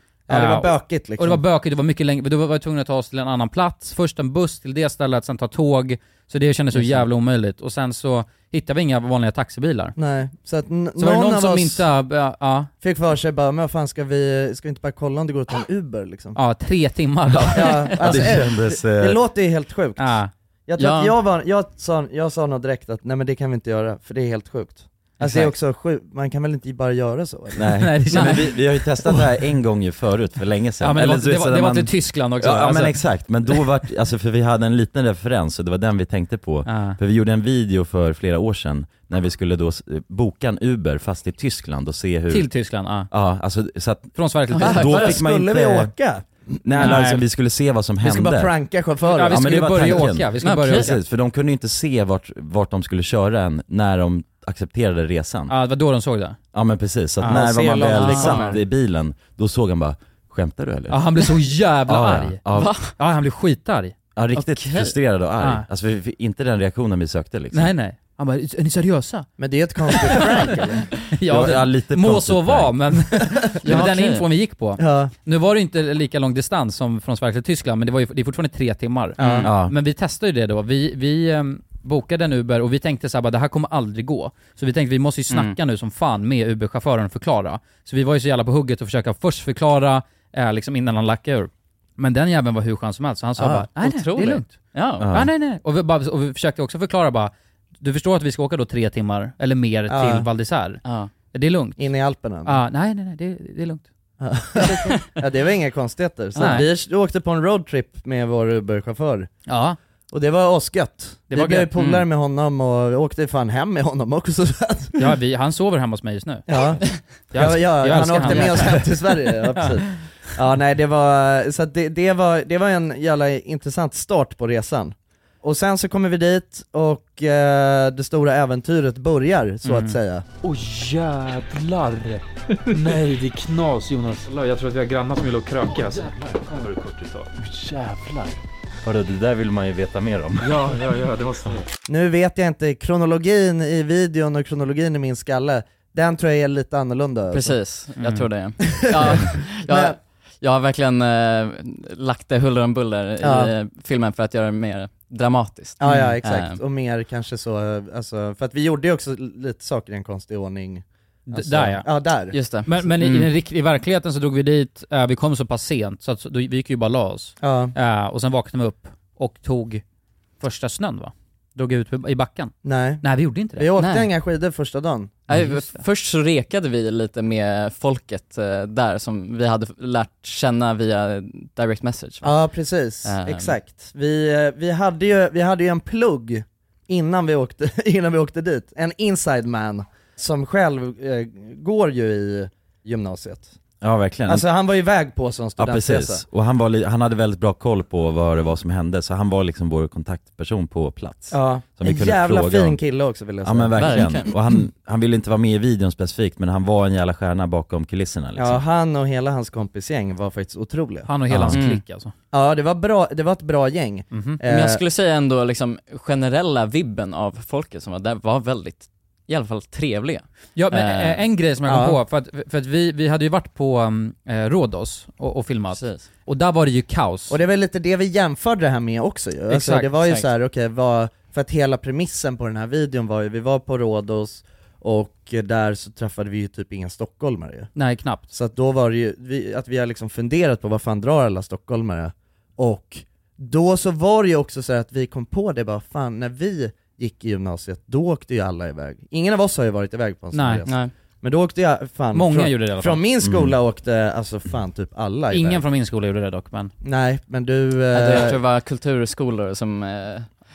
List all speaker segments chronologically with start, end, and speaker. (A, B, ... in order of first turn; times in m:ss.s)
0:00.3-0:01.4 A
0:00.3-0:10.0 B
0:10.0-0:11.8 A
0:11.0-0:12.7 B
0:12.8-0:16.4 A
0:16.4-0:18.3 B
0:17.3-0:19.2 C
0:17.5-0:28.3 A
0:20.0-0:20.3 B
0:20.8-0:21.2 D
0:25.2-0:25.5 B
0:27.6-0:42.5 C
0:27.8-0:28.6 B
0:30.8-0:33.6 B
0:36.7-0:37.0 B
0:42.3-0:43.1 B
0:43.1-0:45.9 C
0:44.2-0:44.9 B
0:44.5-0:45.0 D
0:44.6-0:47.0 A
0:46.6-0:48.6 C
0:46.8-0:47.2 B
0:48.0-0:50.0 A
0:49.1-0:51.0 B
0:49.3-0:55.5 C
0:50.4-0:50.9 D
0:55.5-0:56.4 B
0:56.5-1:01.3 C
0:57.2-0:58.6 A
0:57.9-0:58.6 D
1:00.9-1:04.0 B
1:01.9-1:02.8 C
1:02.6-1:02.9 D
1:04.2-1:07.7 C
1:04.4-1:05.0 D
1:05.4-1:05.7 B
1:07.5-1:09.3 B
1:09.4-1:11.0 A
1:11.1-1:40.8 B
1:11.3-1:12.8 C
1:13.6-1:14.2 D
1:14.8-1:15.1 A
1:19.2-1:19.5 A
1:19.2-1:19.5 D
1:19.4-1:19.8 C
1:25.3-1:25.6 D
1:33.4-1:33.7 A
1:33.8-1:35.1 D
1:35.0-1:35.3 C
1:39.9-1:40.3 A
1:40.8-1:41.1 D
1:41.3-1:41.8 B
1:41.8-1:42.6 A
1:42.4-1:43.8 B
1:44.2-1:49.3 A
1:44.6-1:45.0 D
1:46.4-1:46.7 D
1:46.4-1:46.7 B
1:49.5-1:49.8 B
1:50.1-1:55.0 A
1:51.3-1:51.8 B
1:55.0-1:56.5 B
1:56.5-2:10.2 A
1:57.3-1:59.1 B
1:58.2-1:58.7 D
2:09.6-2:10.0 B
2:10.4-2:18.4 E
2:18.8-2:20.6 C
2:20.4-2:21.7 E
2:21.9-2:27.6 A
2:27.3-2:36.6 D
2:28.0-2:28.3 B
2:28.8-2:30.0 A
2:33.2-2:33.5 A
2:35.8-2:42.4 A
2:35.9-2:36.1 B
2:41.3-2:41.9 B
2:42.3-2:43.3 D
2:42.7-2:49.8 B
2:47.4-2:47.8 A
2:50.4-2:53.7 B
2:52.6-2:55.2 A
2:53.8-2:54.1 D
2:55.3-3:02.3 D
2:55.3-2:55.8 B
3:02.2-3:13.6 A
3:03.0-3:03.6 D
3:13.8-3:14.5 C
3:14.3-3:16.2 A
3:15.6-3:22.8 C
3:21.3-3:24.1 A
3:23.4-3:28.6 C
3:23.8-3:24.3 D
3:28.4-3:31.1 A
3:31.1-3:32.1 B
3:31.3-3:31.6 C
3:31.5-3:31.8 D
3:32.3-3:34.8 A
3:34.1-3:34.4 B
3:34.5-3:41.2 D
3:40.6-3:47.4 B
3:41.6-3:42.0 A
3:45.7-3:46.1 D
3:47.3-3:57.7 A
3:49.5-3:49.9 B
3:50.0-3:50.3 D
3:57.8-3:58.3 B
3:58.3-4:15.6 A
4:10.3-4:10.6 B
4:10.7-4:10.9 D
4:12.1-4:13.0 B
4:13.2-4:13.6 C
4:15.3-4:16.7 B
4:16.8-4:18.4 A
4:17.9-4:20.3 D